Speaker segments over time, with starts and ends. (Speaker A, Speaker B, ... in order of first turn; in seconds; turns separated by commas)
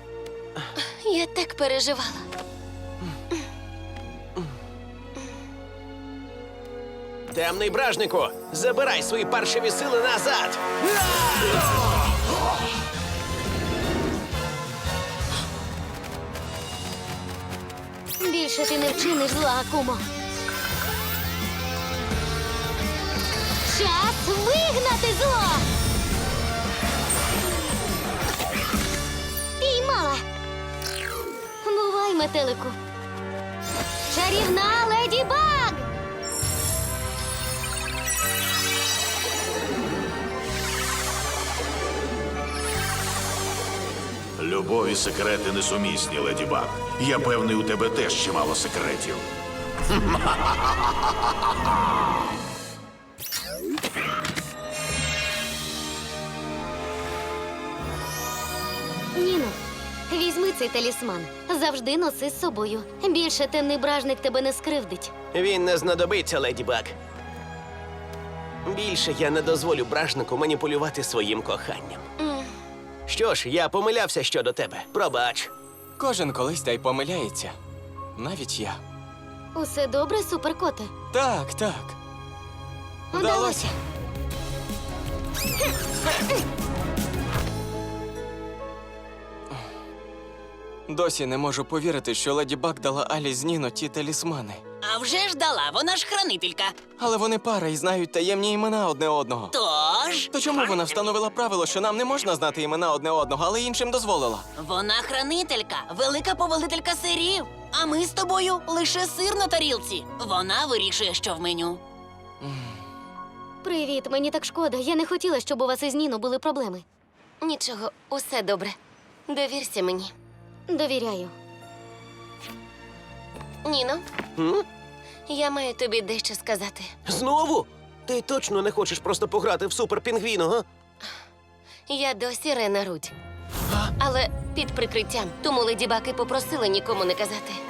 Speaker A: 0.8-2.3, Speaker B: 7.3-11.7, Speaker C: 18.2-20.1, Speaker C: 23.6-25.6, Speaker C: 29.6-30.2, Speaker C: 31.6-32.8, Speaker C: 34.1-35.9, Speaker D: 44.4-49.3, Speaker D: 49.9-50.9, Speaker C: 59.1-59.6, Speaker C: 60.1-65.1, Speaker B: 65.3-66.9, Speaker B: 68.6-72.1, Speaker A: 72.2-72.5, Speaker B: 73.1-75.5, Speaker E: 76.0-77.6, Speaker E: 78.2-78.8, Speaker C: 79.5-80.9, Speaker E: 81.1-82.0, Speaker C: 83.1-83.8, Speaker E: 83.1-83.7, Speaker E: 90.9-94.6, Speaker F: 94.8-96.8, Speaker E: 96.9-99.5, Speaker F: 99.5-100.7, Speaker E: 100.3-104.5, Speaker F: 104.6-111.8, Speaker E: 112.4-112.7, Speaker C: 113.6-116.8, Speaker A: 117.4-118.8, Speaker A: 119.3-120.1, Speaker C: 120.7-121.3, Speaker A: 123.6-124.0, Speaker B: 124.4-124.6, Speaker A: 125.3-126.9, Speaker B: 127.1-130.6, Speaker A: 131.9-133.1, Speaker A: 134.0-137.6